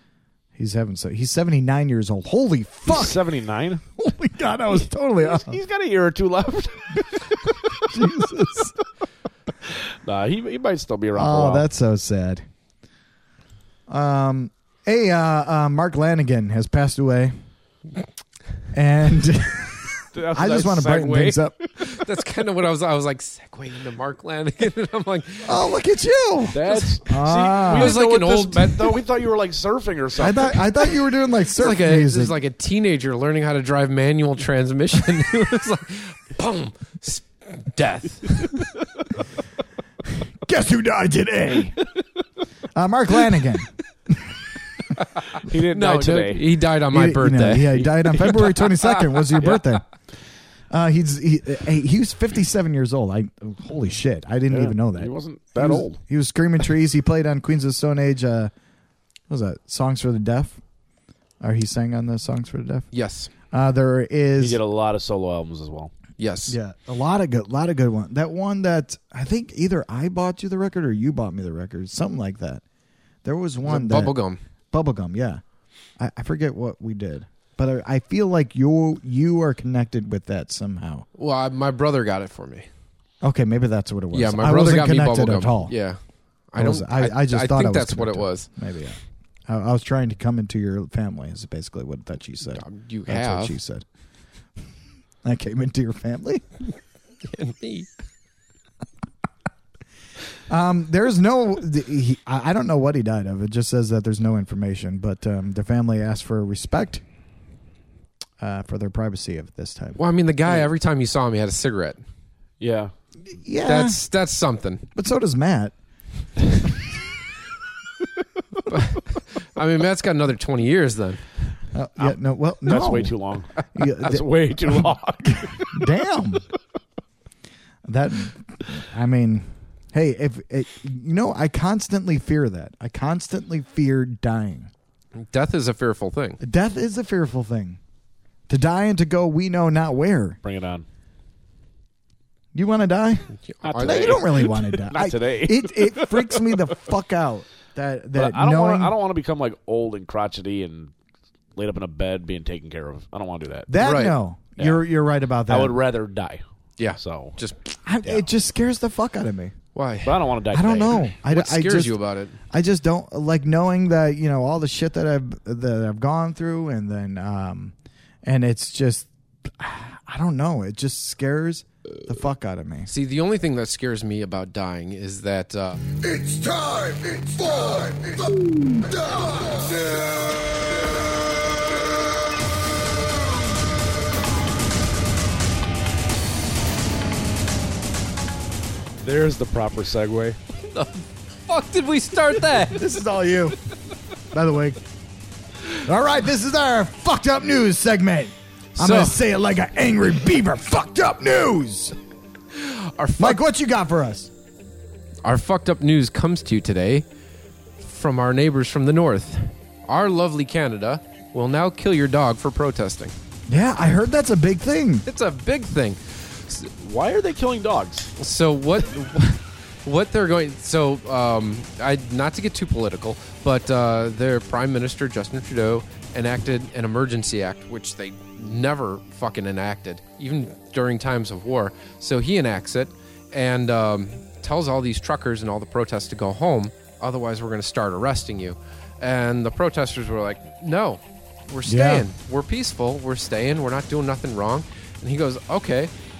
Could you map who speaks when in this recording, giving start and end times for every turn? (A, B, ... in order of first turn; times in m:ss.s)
0:00.6-0:03.2 A
0:02.9-0:03.8 B
0:04.0-0:05.6 A
0:05.2-0:07.8 B
0:07.8-0:08.8 A
0:09.8-0:11.7 B
0:11.1-0:12.4 A
0:13.9-0:17.3 A
0:18.7-0:21.6 A
0:20.1-0:21.4 B
0:21.8-0:25.5 C
0:25.4-0:28.0 A
0:26.5-0:30.6 B
0:27.8-0:29.0 C
0:30.2-0:32.4 A
0:31.6-0:38.6 C
0:40.4-0:41.8 A
0:42.8-0:44.4 A
0:45.4-0:46.5 B
0:45.7-0:48.1 C
0:46.9-0:49.8 A
0:49.4-0:49.6 B
0:50.7-0:58.5 A
0:54.5-0:56.0 B
0:59.3-1:00.6 A
1:01.4-1:02.9 A
1:02.9-1:03.3 C
1:03.5-1:04.6 A
1:04.4-1:05.9 B
1:06.2-1:06.6 C
1:06.5-1:12.6 A
1:13.2-1:14.2 A
1:13.6-1:14.4 C
1:14.7-1:15.4 A
1:16.0-1:21.1 A
1:21.2-1:22.7 C
1:23.2-1:25.8 A
1:24.1-1:26.0 C
1:26.5-1:28.5 C
1:26.6-1:33.8 A
1:32.5-1:33.6 C
1:35.2-1:36.4 A
1:37.2-1:37.9 C
1:40.5-1:47.0 A
1:48.4-1:50.0 A
1:50.0-1:52.0 C
1:52.6-1:52.9 B
1:53.4-1:54.0 A
1:53.7-1:54.8 C
1:55.0-1:55.7 A
1:58.7-2:01.2 C
2:01.7-2:03.2 A
2:02.0-2:05.8 B
2:03.7-2:06.4 A
2:07.8-2:14.7 A
2:15.2-2:16.4 C
2:16.4-2:17.8 A
2:18.5-2:20.4 A
2:20.4-2:20.8 B
2:22.5-2:28.9 A
2:23.5-2:24.2 C
2:23.6-2:26.6 B
2:28.2-2:30.9 B
2:31.6-2:33.7 B
2:33.7-2:35.8 A
2:33.8-2:34.2 C
2:34.6-2:34.8 B
2:35.5-2:36.4 B
2:36.8-2:37.6 C
2:37.0-2:37.4 B
2:37.9-2:39.6 A
2:39.8-2:40.2 C
2:40.0-2:41.1 B
2:40.5-2:42.0 A
2:41.2-2:42.4 C
2:42.5-2:52.9 A
2:52.9-2:55.8 C
3:09.0-3:10.4 B
3:10.6-3:12.8 C
3:12.7-3:13.6 A
3:14.3-3:14.8 A
3:15.8-3:22.0 A
3:18.8-3:19.2 C
3:22.6-3:23.4 C
3:23.2-3:24.3 A
3:25.2-3:27.1 C
3:27.8-3:33.1 C
3:33.5-3:35.0 A
3:35.1-3:36.7 C
3:36.8-3:38.1 B
3:38.2-4:05.9 C
4:01.7-4:02.1 A